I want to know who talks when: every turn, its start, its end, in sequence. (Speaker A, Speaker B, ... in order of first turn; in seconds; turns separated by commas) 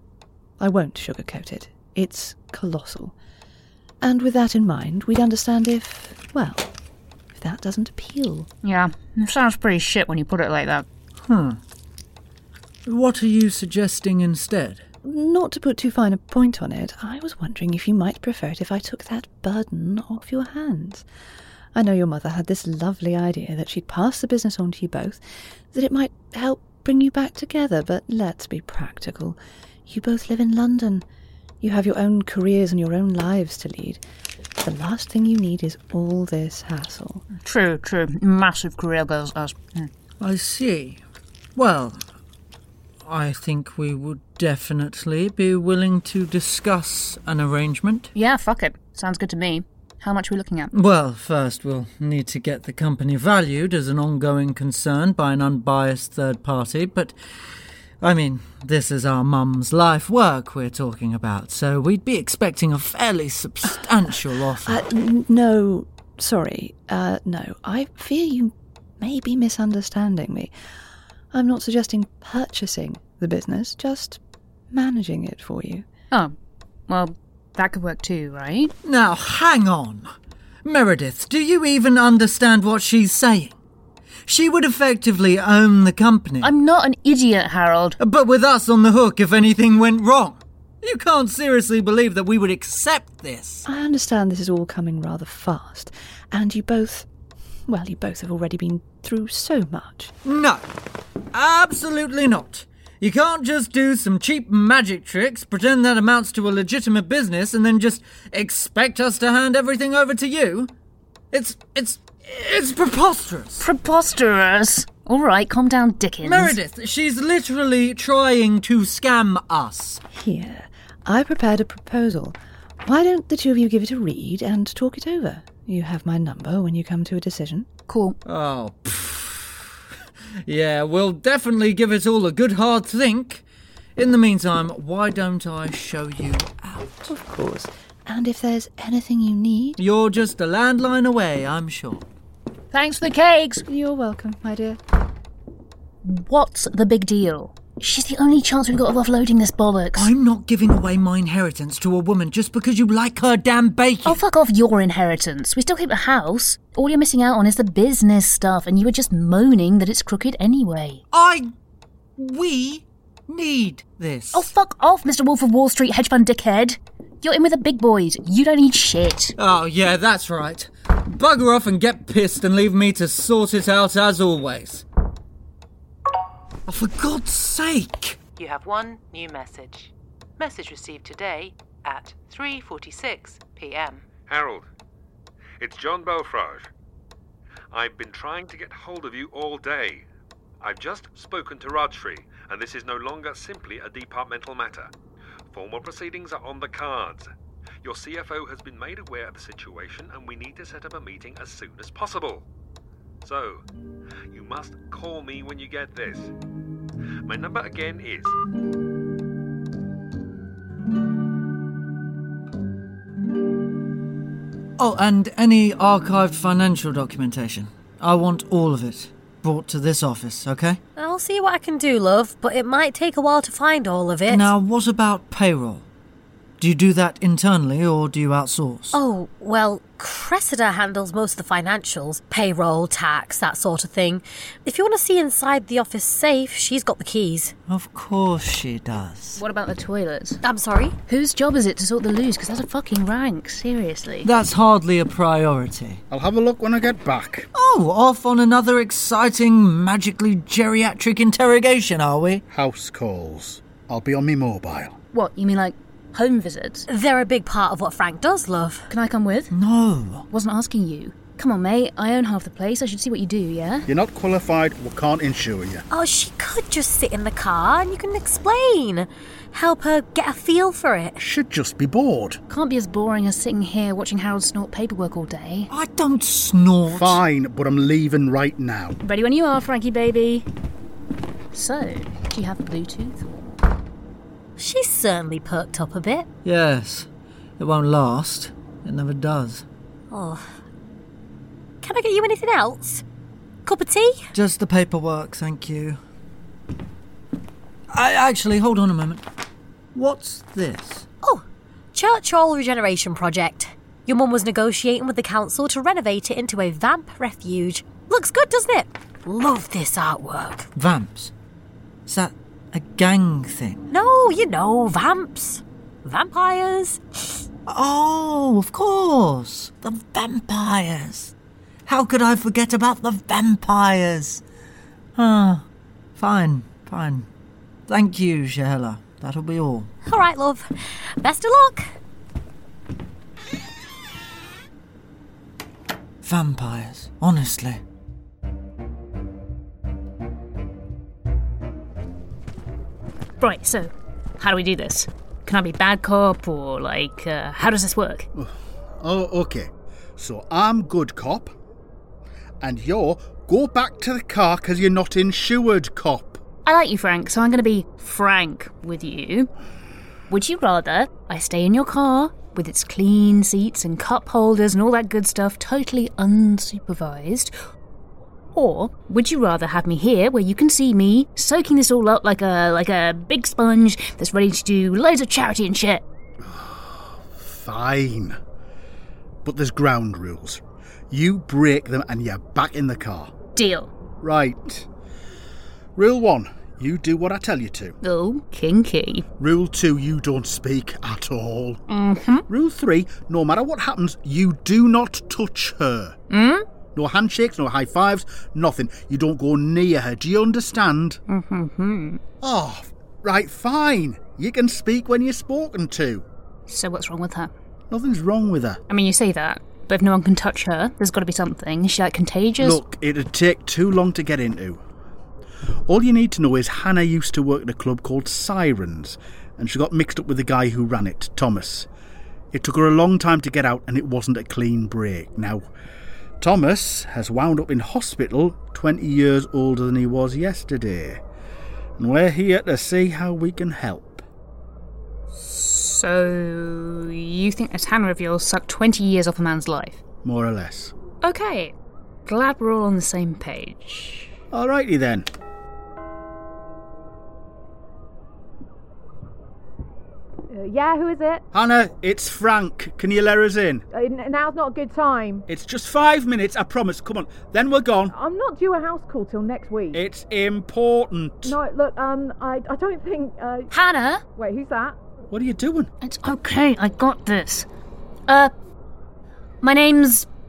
Speaker A: 0.6-3.1, Speaker A: 4.0-6.7, Speaker A: 7.3-8.5, Speaker B: 8.6-10.9, Speaker C: 11.2-11.6, Speaker C: 12.9-14.8, Speaker A: 15.0-21.1, Speaker A: 21.7-25.2, Speaker A: 25.7-31.1, Speaker A: 31.6-34.0, Speaker A: 34.6-37.2, Speaker B: 37.4-39.9, Speaker C: 40.2-41.0, Speaker C: 41.6-42.0, Speaker C: 43.0-48.1, Speaker B: 48.1-50.7, Speaker C: 50.7-57.1, Speaker C: 58.0-64.8, Speaker A: 64.6-70.5, Speaker A: 71.3-74.2, Speaker A: 74.7-75.9, Speaker B: 76.9-78.7, Speaker C: 78.8-80.1, Speaker C: 80.7-83.6, Speaker C: 84.3-86.5, Speaker B: 86.4-88.0, Speaker C: 88.0-93.7, Speaker A: 93.7-97.1, Speaker A: 97.7-100.1, Speaker C: 100.2-100.6, Speaker C: 101.3-110.7, Speaker C: 111.3-113.7, Speaker B: 113.6-116.6, Speaker C: 116.2-120.0, Speaker A: 120.1-127.7, Speaker B: 127.9-128.2, Speaker C: 128.3-129.7, Speaker C: 130.4-133.4, Speaker C: 134.0-137.1, Speaker A: 137.1-139.8, Speaker C: 139.8-142.1, Speaker B: 142.7-143.7, Speaker A: 143.7-144.8, Speaker B: 146.0-150.1, Speaker C: 150.0-154.2, Speaker B: 154.1-161.0, Speaker C: 161.1-161.5, Speaker C: 162.2-164.5, Speaker B: 164.3-169.3, Speaker C: 169.4-174.8, Speaker C: 176.7-178.2, Speaker D: 178.4-184.1, Speaker E: 184.2-184.7, Speaker E: 185.6-186.7, Speaker E: 187.7-190.1, Speaker E: 190.6-194.9, Speaker E: 195.5-197.3, Speaker E: 197.8-202.4, Speaker E: 203.2-203.6, Speaker E: 204.3-206.3, Speaker E: 207.2-208.4, Speaker C: 214.8-220.8, Speaker F: 221.0-224.5, Speaker C: 224.3-225.9, Speaker C: 226.6-229.0, Speaker F: 228.9-237.5, Speaker C: 237.7-239.4, Speaker B: 239.4-240.4, Speaker F: 240.4-240.9, Speaker B: 241.1-244.3, Speaker C: 244.2-246.0, Speaker G: 246.1-247.5, Speaker C: 247.5-252.4, Speaker G: 252.5-255.0, Speaker B: 255.1-256.9, Speaker F: 256.9-258.9, Speaker B: 258.9-259.5, Speaker C: 259.5-260.3, Speaker B: 260.3-263.9, Speaker G: 263.9-265.9, Speaker F: 265.9-271.2, Speaker G: 271.2-272.4, Speaker B: 272.5-275.7, Speaker C: 275.7-277.2, Speaker G: 276.9-279.0, Speaker B: 279.0-280.5, Speaker B: 281.5-283.3, Speaker F: 284.6-286.3, Speaker C: 286.4-287.1, Speaker C: 287.6-289.6, Speaker F: 290.1-290.5, Speaker F: 291.8-293.0, Speaker F: 293.7-294.2, Speaker C: 294.3-296.0, Speaker C: 297.9-299.2, Speaker C: 299.9-301.1, Speaker F: 301.2-310.7, Speaker C: 310.8-311.3, Speaker C: 312.1-313.9, Speaker F: 313.9-317.0, Speaker C: 317.7-321.3, Speaker C: 321.9-324.4, Speaker C: 325.2-325.7, Speaker C: 326.2-327.3, Speaker C: 327.9-329.9, Speaker F: 330.1-331.9, Speaker C: 336.2-337.8, Speaker B: 343.4-348.3, Speaker G: 348.4-351.5, Speaker G: 352.6-356.4, Speaker B: 356.6-359.5, Speaker B: 360.3-367.5, Speaker B: 368.6-376.0, Speaker G: 376.4-378.4, Speaker G: 379.4-383.3, Speaker B: 383.6-383.9, Speaker G: 384.2-384.9, Speaker G: 386.0-388.0, Speaker B: 388.0-389.3, Speaker G: 389.4-391.8, Speaker B: 391.9-392.5, Speaker G: 392.5-396.2, Speaker B: 396.3-396.6, Speaker G: 396.9-401.2, Speaker B: 401.3-402.2, Speaker G: 402.4-406.2, Speaker B: 406.7-407.5, Speaker G: 407.9-408.8, Speaker B: 408.9-412.8, Speaker G: 412.6-414.8, Speaker G: 415.9-421.9, Speaker G: 422.5-425.7, Speaker G: 426.4-431.2, Speaker G: 432.0-434.2, Speaker B: 435.3-440.0, Speaker G: 440.2-440.9, Speaker B: 441.2-441.8, Speaker B: 442.3-444.3, Speaker G: 444.5-445.3, Speaker H: 450.5-451.4, Speaker G: 451.5-453.9, Speaker H: 453.9-455.5, Speaker G: 455.5-458.1, Speaker H: 458.1-460.0, Speaker G: 459.9-461.6, Speaker H: 461.4-463.7, Speaker B: 463.7-464.2, Speaker H: 464.4-465.0, Speaker G: 465.3-465.9, Speaker B: 466.0-467.7, Speaker B: 468.3-468.5, Speaker B: 469.6-470.3